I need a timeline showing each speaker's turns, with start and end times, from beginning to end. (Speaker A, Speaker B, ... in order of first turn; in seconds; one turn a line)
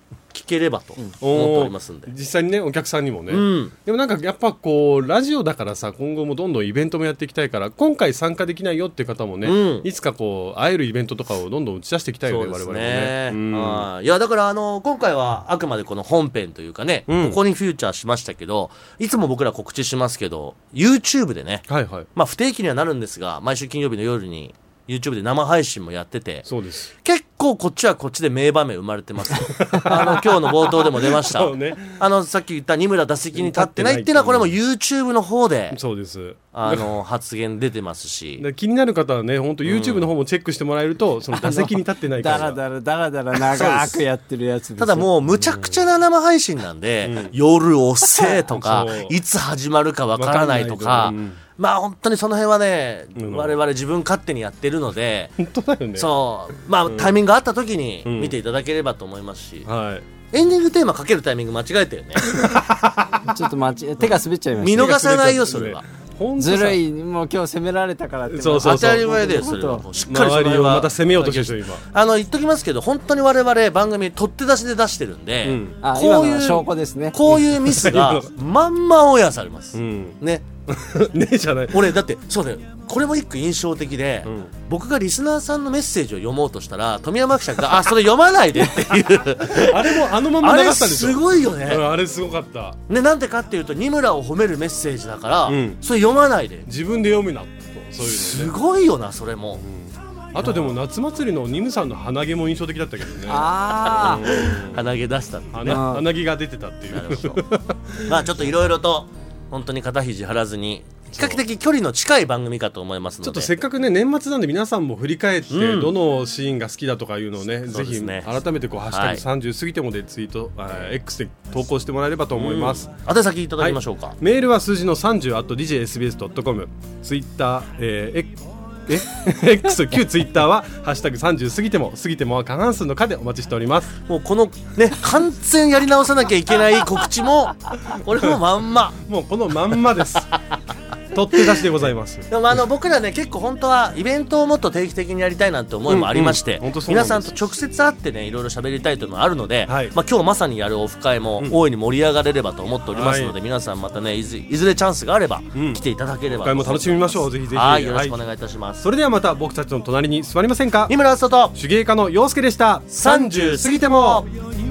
Speaker A: 0.3-2.1
Speaker B: 1.2-13.8
Speaker A: 3.3-3.7
Speaker A: 9.4-9.9
Speaker A: 12.2-26.5
Speaker B: 17.1-17.4
Speaker B: 21.7-22.1
Speaker B: 26.4-26.9
Speaker A: 27.0-35.8
Speaker B: 29.4-32.0
Speaker B: 33.3-34.5
Speaker B: 35.7-36.9
Speaker A: 36.5-38.5
Speaker B: 38.4-42.6
Speaker A: 39.6-40.1
Speaker C: 41.4-45.1
Speaker A: 43.4-44.0
Speaker A: 44.8-55.4
Speaker B: 45.4-45.8
Speaker B: 47.0-47.3
Speaker B: 48.2-49.1
Speaker B: 50.2-51.4
Speaker B: 53.2-53.5
Speaker B: 55.4-56.1
Speaker A: 55.9-59.7
Speaker B: 56.9-57.2
Speaker B: 58.0-58.3
Speaker B: 59.6-60.1
Speaker A: 60.3-62.3
Speaker B: 62.2-63.3
Speaker C: 63.2-65.0
Speaker A: 64.6-65.8
Speaker B: 64.6-66.8
Speaker C: 66.4-69.8
Speaker B: 68.3-69.1
Speaker A: 68.6-80.4
Speaker B: 70.0-71.8
Speaker B: 75.4-75.8
Speaker C: 75.8-77.3
Speaker B: 77.3-78.3
Speaker B: 79.7-81.8
Speaker A: 81.7-91.8
Speaker B: 84.2-84.5
Speaker B: 89.4-92.8
Speaker A: 92.9-96.7
Speaker B: 95.5-95.8
Speaker B: 96.7-98.5
Speaker A: 98.0-99.6
Speaker B: 99.6-104.8
Speaker C: 103.3-104.2
Speaker A: 103.8-105.8
Speaker B: 105.5-108.2
Speaker C: 105.7-106.0
Speaker A: 106.9-107.4
Speaker A: 108.0-113.6
Speaker B: 111.1-111.4
Speaker B: 113.2-122.9
Speaker A: 115.5-116.0
Speaker A: 117.6-118.3
Speaker A: 118.9-119.2
Speaker A: 122.4-124.2
Speaker B: 123.6-134.0
Speaker A: 134.1-139.0
Speaker B: 139.0-140.3
Speaker B: 141.1-142.3
Speaker A: 141.3-158.8
Speaker B: 145.9-147.3
Speaker B: 149.7-149.9
Speaker B: 152.9-153.3
Speaker B: 155.5-158.2
Speaker B: 158.8-160.9
Speaker A: 160.9-161.5
Speaker B: 161.5-164.5
Speaker A: 162.9-164.3